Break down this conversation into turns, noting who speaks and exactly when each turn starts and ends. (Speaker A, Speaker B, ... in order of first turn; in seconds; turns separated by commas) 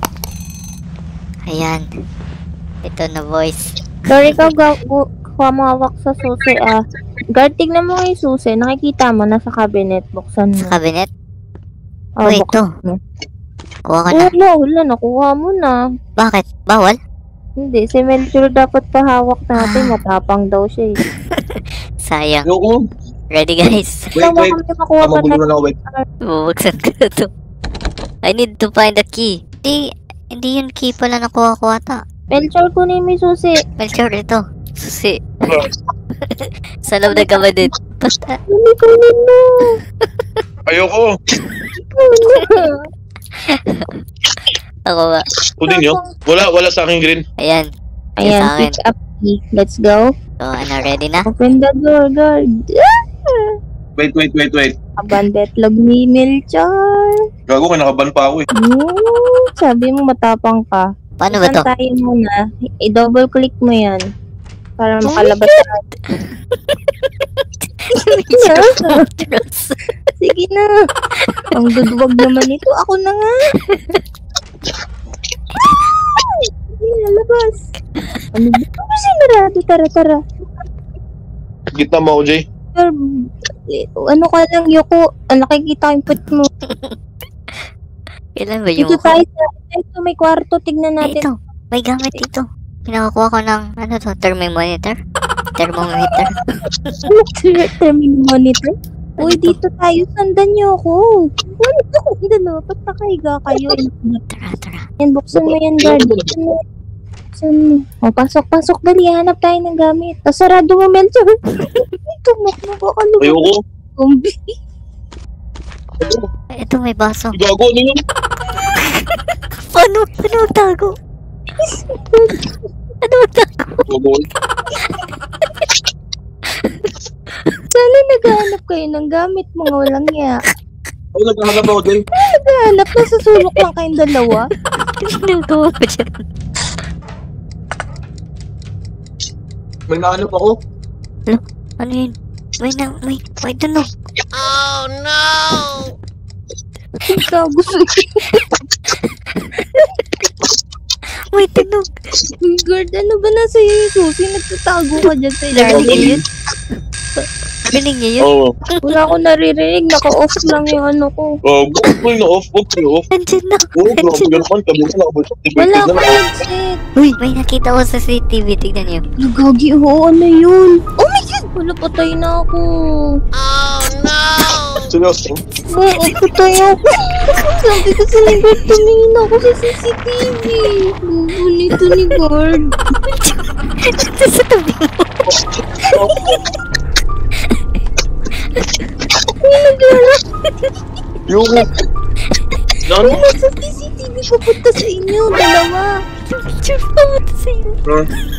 Speaker A: 1.5-1.9, Speaker A: 2.8-4.5, Speaker B: 4.1-6.8, Speaker B: 7.4-10.7, Speaker A: 10.6-11.1, Speaker B: 12.2-12.9, Speaker A: 12.2-12.7, Speaker A: 13.9-14.3, Speaker B: 14.1-15.8, Speaker A: 16.2-17.0, Speaker B: 17.6-21.0, Speaker A: 19.6-20.0, Speaker A: 21.1-22.5, Speaker C: 22.5-22.8, Speaker A: 23.3-24.1, Speaker C: 24.1-25.8, Speaker B: 24.2-26.0, Speaker A: 26.2-27.3, Speaker A: 28.2-29.8, Speaker A: 30.3-32.0, Speaker B: 32.3-33.6, Speaker A: 33.8-35.6, Speaker A: 36.2-38.4, Speaker B: 37.1-37.5, Speaker B: 38.5-39.8, Speaker C: 40.7-41.1, Speaker B: 42.0-42.8, Speaker A: 42.3-42.6, Speaker A: 43.4-43.9, Speaker A: 44.9-45.3, Speaker C: 45.6-47.2, Speaker B: 45.7-46.1, Speaker A: 47.4-47.7, Speaker B: 48.2-50.1, Speaker A: 48.2-48.8, Speaker A: 50.4-51.3, Speaker B: 51.3-53.5, Speaker C: 54.0-54.8, Speaker B: 55.0-57.2, Speaker C: 57.5-58.5, Speaker B: 58.6-64.0, Speaker A: 61.2-61.7, Speaker B: 64.8-65.8, Speaker A: 65.1-65.6, Speaker A: 66.1-67.1, Speaker A: 67.9-69.8, Speaker B: 68.3-69.0, Speaker B: 70.2-70.6, Speaker B: 71.5-73.3, Speaker B: 75.7-77.6, Speaker B: 78.3-80.2, Speaker C: 81.8-82.4, Speaker B: 83.7-86.5, Speaker A: 86.7-87.0, Speaker A: 88.4-89.2, Speaker B: 88.8-91.2, Speaker A: 91.0-95.0, Speaker A: 95.6-97.0, Speaker B: 97.1-98.7, Speaker A: 99.2-99.6, Speaker B: 99.2-104.2, Speaker A: 104.3-104.8, Speaker B: 105.0-106.6, Speaker C: 105.3-106.3, Speaker B: 107.3-111.3, Speaker B: 112.1-113.5, Speaker C: 113.2-113.6, Speaker B: 114.0-114.5, Speaker C: 116.0-116.3, Speaker A: 116.5-117.3, Speaker C: 117.3-118.0, Speaker A: 119.7-120.9, Speaker B: 121.6-122.5, Speaker A: 123.0-123.8, Speaker C: 123.9-124.3, Speaker A: 126.6-126.9, Speaker B: 127.7-130.3, Speaker C: 131.2-132.0, Speaker B: 132.4-134.5, Speaker A: 135.0-136.2, Speaker C: 139.9-140.5, Speaker A: 141.3-143.9, Speaker B: 147.1-148.2, Speaker A: 148.3-149.8, Speaker A: 151.3-151.9, Speaker B: 152.4-156.1, Speaker A: 155.5-156.2, Speaker C: 155.7-156.2, Speaker A: 157.2-159.0, Speaker C: 158.2-158.5, Speaker B: 158.8-161.3, Speaker C: 161.5-163.1, Speaker A: 163.1-164.4, Speaker C: 163.8-166.2, Speaker B: 165.6-166.8, Speaker A: 167.0-169.0, Speaker B: 169.2-172.7, Speaker A: 174.0-174.5, Speaker C: 174.8-175.4, Speaker B: 175.7-182.7, Speaker A: 175.9-176.2, Speaker A: 181.8-182.2, Speaker A: 183.1-185.1, Speaker C: 185.8-186.3, Speaker A: 188.6-188.9, Speaker B: 189.4-190.2, Speaker C: 191.3-191.7, Speaker C: 192.9-193.2, Speaker B: 193.0-195.9, Speaker A: 196.3-197.8